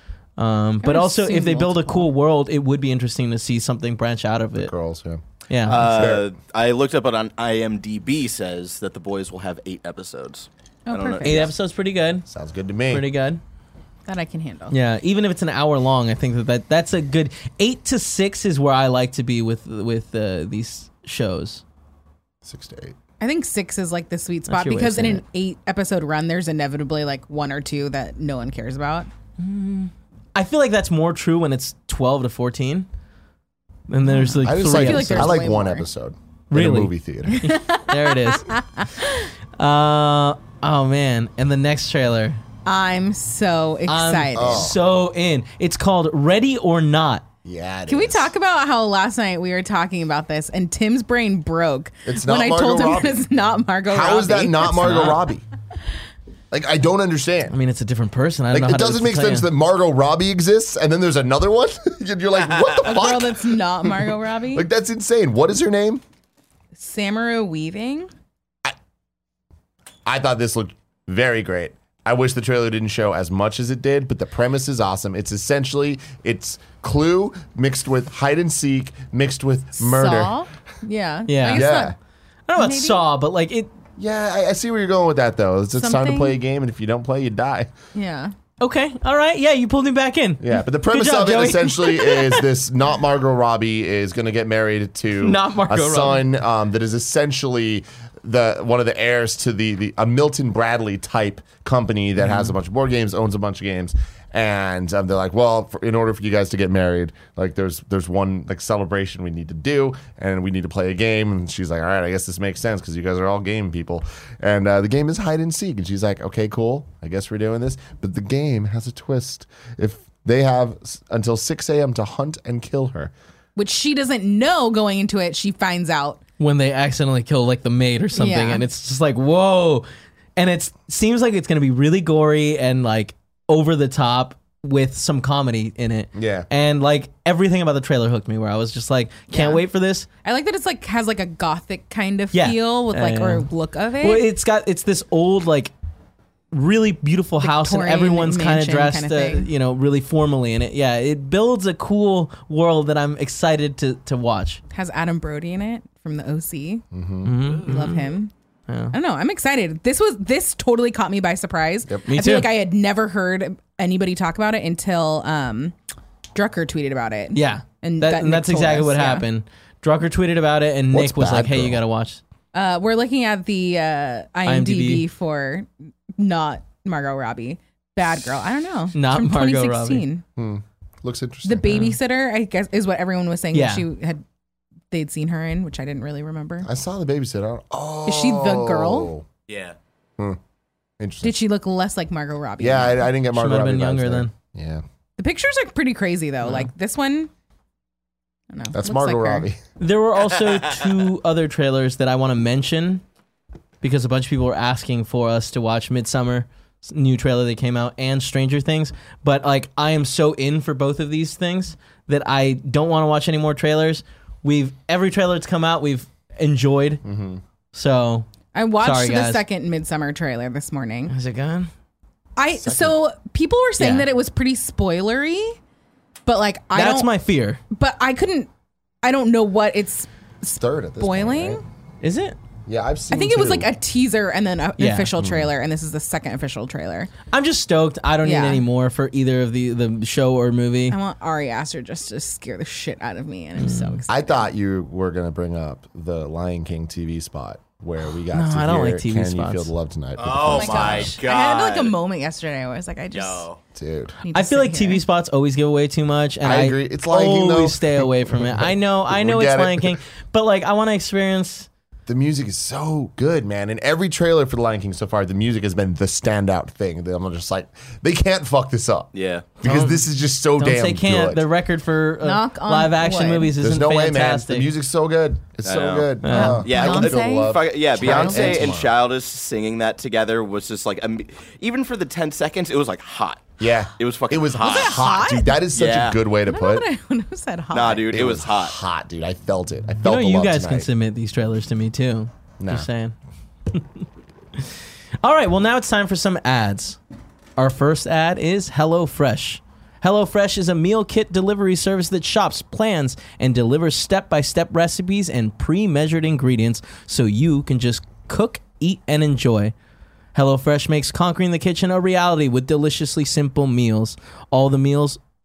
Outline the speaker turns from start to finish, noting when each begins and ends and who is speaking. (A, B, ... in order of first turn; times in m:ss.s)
0:00.4-0:04.7 A
0:00.8-0:02.1 B
0:04.6-0:06.3 C
0:05.5-0:05.9 A
0:05.7-0:11.5 D
0:10.9-0:11.5 B
0:11.2-0:12.3 A
0:12.3-0:13.1 C
0:12.9-0:13.4 A
0:14.1-0:14.8 B
0:14.7-0:21.6 A
0:22.4-0:23.0 C
0:23.2-0:29.1 B
0:24.5-0:25.2 A
0:29.4-0:32.9 A
0:33.9-0:35.4 A
0:34.1-0:35.8 B
0:34.4-0:37.5 C
0:36.5-0:38.5 A
0:37.3-0:39.3 B
0:39.6-0:42.4 A
0:42.6-0:44.7 B
0:43.9-0:47.2 A
0:44.4-0:44.8 C
0:47.4-0:48.3 C
0:47.9-0:55.2 B
0:52.1-0:53.2 C
0:53.9-0:55.4 C
0:54.8-0:55.2 A
0:56.5-0:57.6 C
0:57.5-0:59.5 A
0:58.5-1:06.0 C
1:02.8-1:04.6 B
1:06.8-1:08.1 B
1:10.1-1:20.4 C
1:19.8-1:22.0 B
1:21.3-1:21.7 A
1:21.5-1:22.0 C
1:22.5-1:23.7 A
1:22.6-1:23.0 B
1:24.0-1:27.7 C
1:25.7-1:26.4 B
1:27.9-1:28.3 B
1:28.6-1:32.5 A
1:30.4-2:03.1 C
1:35.2-1:36.2 A
1:42.2-1:42.5 A
2:03.6-2:06.2 B
2:06.4-2:09.9 A
2:08.2-2:08.6 B
2:10.4-2:20.1 A
2:16.1-2:16.5 C
2:19.3-2:19.6 B
2:20.2-2:24.3 B
2:22.3-2:23.5 A
2:24.0-2:25.7 A
2:26.5-2:34.6 A
2:27.4-2:29.5 B
2:34.7-2:36.8 B
2:36.9-2:37.4 C
2:37.2-2:38.1 A
2:37.6-2:38.3 B
2:38.7-2:39.0 A
2:38.9-2:45.8 B
2:42.1-2:42.5 A
2:46.3-2:49.3 B
2:47.3-2:52.2 A
2:50.9-2:51.8 C
2:52.5-3:00.2 B
2:54.4-2:55.0 A
2:58.9-3:00.1 A
3:00.4-3:01.8 C
3:01.4-3:04.2 B
3:01.7-3:02.0 A
3:03.5-3:03.9 A
3:04.9-3:06.7 B
3:06.6-3:09.3 C
3:08.1-3:09.1 B
3:09.5-3:09.8 D
3:11.0-3:11.4 C
3:11.2-3:13.1 B
3:12.6-3:14.8 C
3:13.3-3:14.3 A
3:15.2-3:17.3 B
3:16.4-3:16.7 A
3:18.5-3:19.5 B
3:18.7-3:19.6 C
3:19.8-3:23.0 A
3:23.8-3:37.0 A
3:37.0-3:37.4 C
3:37.7-3:38.3 A
3:38.5-3:41.1 B
3:38.8-3:39.4 A
3:41.1-3:41.7 A
3:42.4-3:45.6 B
3:42.6-3:43.0 C
3:43.8-3:44.1 A
3:46.3-3:47.1 B
3:46.7-3:47.6 A
3:47.7-3:48.5 B
3:49.0-3:51.6 B
3:50.5-3:51.6 C
3:52.0-3:52.4 A
3:52.7-3:53.7 C
3:53.1-3:57.1 B
3:54.8-3:55.1 A
3:55.2-3:55.5 C
3:57.3-4:01.0 A
3:58.2-3:58.6 B
4:00.9-4:04.4 B
4:03.6-4:04.0 A
4:04.1-4:11.1 C
4:08.3-4:09.7 A
4:10.2-4:12.0 D
4:10.4-4:13.5 B
4:13.1-4:13.6 D
4:13.8-4:14.1 C
4:14.2-4:15.0 B
4:14.3-4:21.7 A
4:16.4-4:20.0 C
4:22.1-4:31.5 C
4:29.1-4:29.5 D
4:29.6-4:30.0 A
4:30.6-4:34.7 A
4:32.2-4:33.6 B
4:33.6-4:38.9 C
4:35.6-4:45.1 D
4:36.2-4:36.6 A
4:36.3-4:38.7 B
4:43.6-4:46.9 C
4:44.6-4:45.6 B
4:45.7-4:46.2 D
4:46.5-4:48.2 B
4:47.7-4:48.8 D
4:48.1-4:50.9 C
4:50.0-4:53.2 A
4:52.6-4:52.9 C
4:53.7-4:54.0 A
4:54.6-4:57.0 A
4:57.6-5:09.7 A
5:10.3-5:15.2 A